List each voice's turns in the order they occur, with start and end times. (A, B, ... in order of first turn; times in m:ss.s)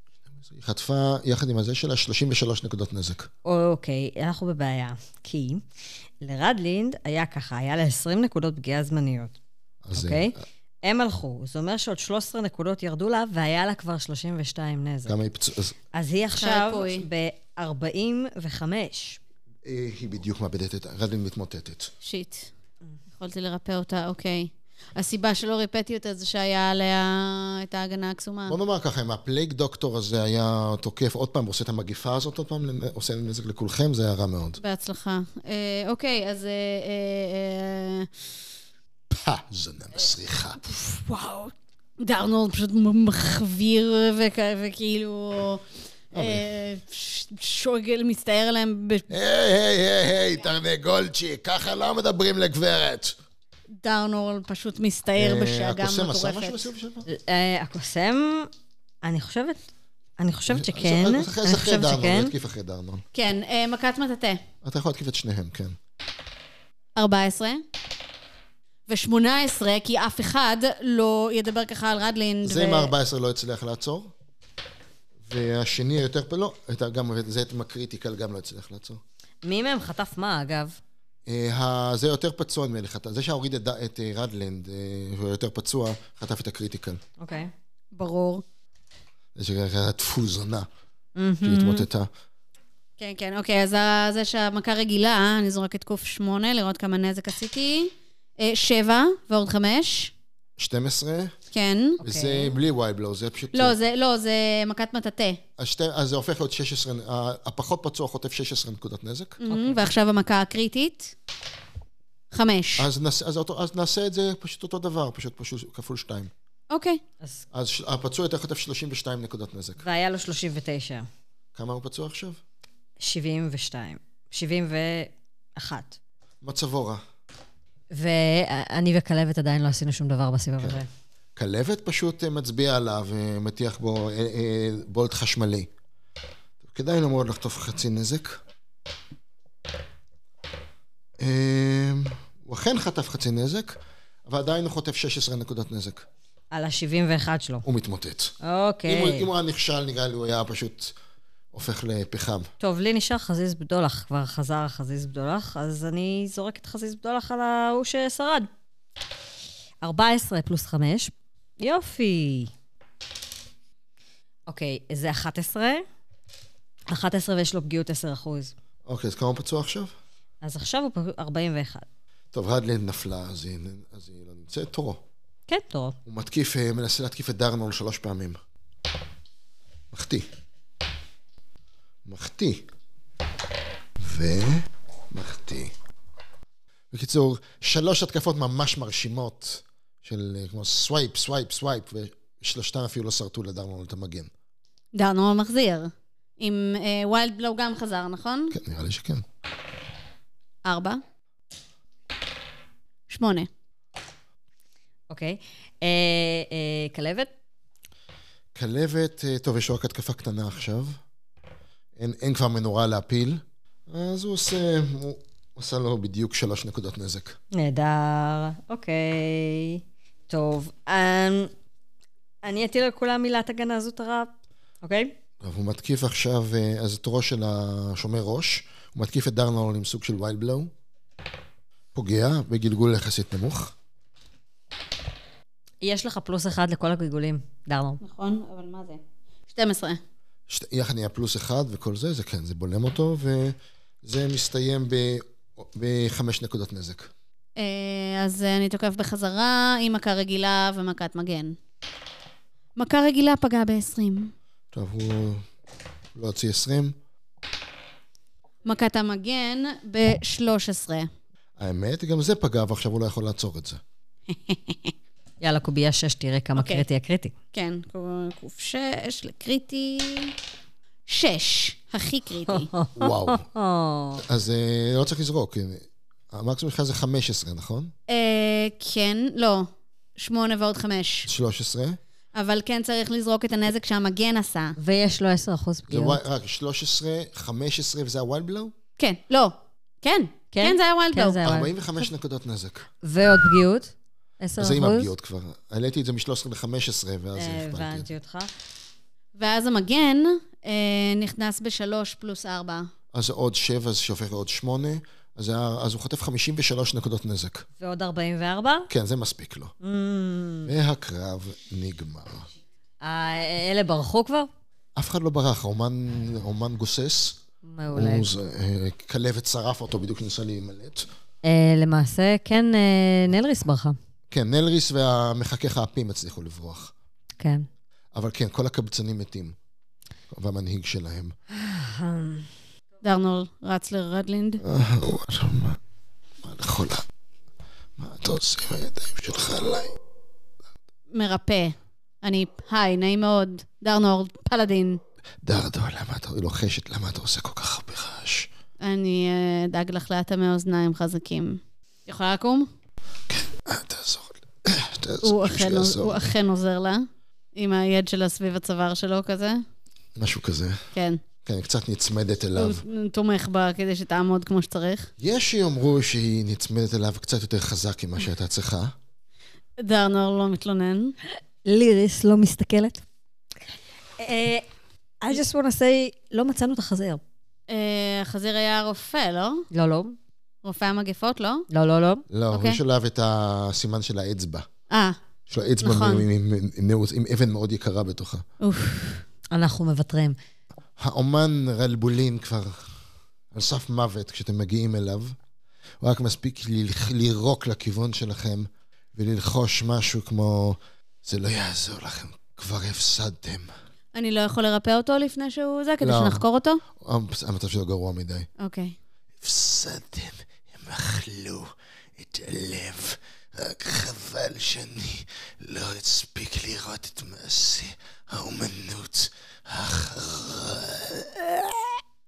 0:00.4-0:03.3 A
0:03.4-0:05.6 B
0:06.2-0:09.4 B
0:09.8-0:10.4 A
0:09.9-0:15.2 B
0:15.1-0:15.8 A
0:15.9-0:19.2 B
0:16.4-0:17.1 C
0:19.6-0:21.9 A
0:22.0-0:22.5 C
0:23.2-0:28.6 C
0:28.5-0:34.6 A
0:34.6-0:38.1 C
0:39.1-0:40.6 A
0:40.7-0:49.1 C
0:46.1-0:46.5 A
0:49.1-0:53.2 A
0:53.8-0:56.6 C
0:55.2-0:57.1 A
0:57.1-0:58.5 B
0:59.0-0:59.6 B
1:00.2-1:02.3 B
1:00.5-1:03.0 A
1:03.1-1:04.4 C
1:04.6-1:05.8 A
1:07.0-1:07.6 C
1:08.9-1:12.9 C
1:12.4-1:14.1 A
1:15.2-1:19.0 A
1:19.4-1:20.8 B
1:21.3-1:27.0 A
1:27.2-1:27.5 B
1:27.9-1:28.4 C
1:29.4-1:30.7 A
1:31.2-1:31.9 B
1:31.4-1:32.1 A
1:33.0-1:40.1 C
1:40.6-1:41.4 A
1:41.5-1:42.0 C
1:42.0-1:42.6 B
1:42.0-1:43.8 A
1:43.5-1:45.4 C
1:45.6-1:49.4 A
1:49.4-1:51.1 C
1:49.5-1:49.8 B
1:52.3-1:52.9 C
1:52.8-1:56.3 A
1:56.7-1:57.0 C
1:57.5-1:59.8 A
1:59.8-2:01.1 B
2:01.6-2:02.4 A
2:03.0-2:06.0 B
2:06.4-2:07.0 A
2:07.9-2:10.9 B
2:11.4-2:15.7 A
2:16.6-2:18.4 A
2:21.2-2:26.1 A
2:26.5-2:27.7 B
2:27.6-2:28.3 A
2:28.4-2:29.3 B
2:28.9-2:31.0 A
2:31.5-2:32.5 A
2:32.6-2:38.5 B
2:39.8-2:42.5 B
2:44.5-2:45.8 B
2:46.9-2:48.5 B
2:48.9-2:49.9 A
2:50.4-2:51.9 B
2:52.3-2:55.0 A
2:55.5-2:56.0 B
2:56.1-2:58.4 A
2:59.9-3:00.3 A
3:02.0-3:02.7 A
3:04.0-3:05.7 A
3:06.9-3:14.3 A
3:15.0-3:18.6 C
3:18.5-3:19.2 A
3:20.6-3:21.0 C
3:23.1-3:23.5 C
3:25.1-3:27.3 B
3:28.6-3:31.0 A
3:32.0-3:37.4 A
3:37.5-3:41.5 B
3:42.4-3:45.1 B
3:45.4-3:50.7 A
3:51.9-3:53.7 A
3:55.8-3:58.0 B
3:58.0-4:00.0 C
4:00.5-4:07.1 A
4:07.6-4:11.6 C
4:12.8-4:14.3 C
4:14.7-4:15.4 A
4:16.2-4:17.0 A
4:18.6-4:21.1 C
4:21.6-4:23.8 A
4:24.3-4:24.9 C
4:25.4-4:27.4 B
4:26.6-4:26.8 C
4:27.5-4:30.4 C
4:31.1-4:32.7 C
4:32.5-4:34.2 B
4:33.0-4:33.4 A
4:34.2-4:37.9 A
4:38.1-4:41.3 C
4:41.3-4:42.0 A
4:42.4-4:44.8 C
4:44.8-4:46.2 B
4:45.9-4:48.7 A
4:49.0-4:51.4 C
4:50.5-4:51.7 B
4:51.4-4:52.9 A
4:53.0-4:55.1 B
4:54.6-4:58.1 A
4:57.4-4:58.5 B
4:59.4-5:02.9 C
5:03.1-5:07.6 A
5:07.8-5:08.9 B
5:08.9-5:09.7 A
5:09.8-5:10.7 B
5:10.7-5:12.5 A
5:13.0-5:14.5 B
5:15.0-5:17.4 A
5:17.6-5:18.3 B
5:17.9-5:21.1 A
5:21.4-5:24.0 B
5:24.3-5:26.9 A
5:27.4-5:27.7 B
5:28.1-5:29.6 A
5:30.3-5:31.3 A
5:31.5-5:32.5 B
5:33.0-5:34.6 C
5:34.6-5:35.8 A
5:36.4-5:37.0 A
5:38.0-5:40.0 A
5:41.1-5:45.0 C
5:45.4-5:48.5 A
5:48.8-5:52.7 C
5:53.3-5:56.2 A
5:55.2-5:59.6 C
6:00.2-6:00.8 A
6:00.9-6:01.2 C
6:01.4-6:02.8 A
6:02.6-6:05.1 C
6:05.2-6:08.9 A
6:09.8-6:11.2 C
6:11.6-6:13.0 B
6:14.2-6:14.7 B
6:15.2-6:17.2 B
6:17.7-6:19.7 C
6:19.7-6:20.2 B
6:20.6-6:21.7 C
6:21.7-6:22.2 B
6:22.3-6:24.7 A
6:22.5-6:22.8 C
6:24.9-6:25.2 C
6:25.5-6:28.4 A
6:25.8-6:26.3 C
6:28.6-6:29.2 C
6:29.5-6:30.4 B
6:31.0-6:32.9 A
6:33.5-6:35.4 A
6:36.0-6:43.7 A
6:44.1-6:46.8 C
6:46.0-6:46.4 A
6:47.0-6:48.5 A
6:48.6-6:49.0 C
6:49.4-7:02.0 A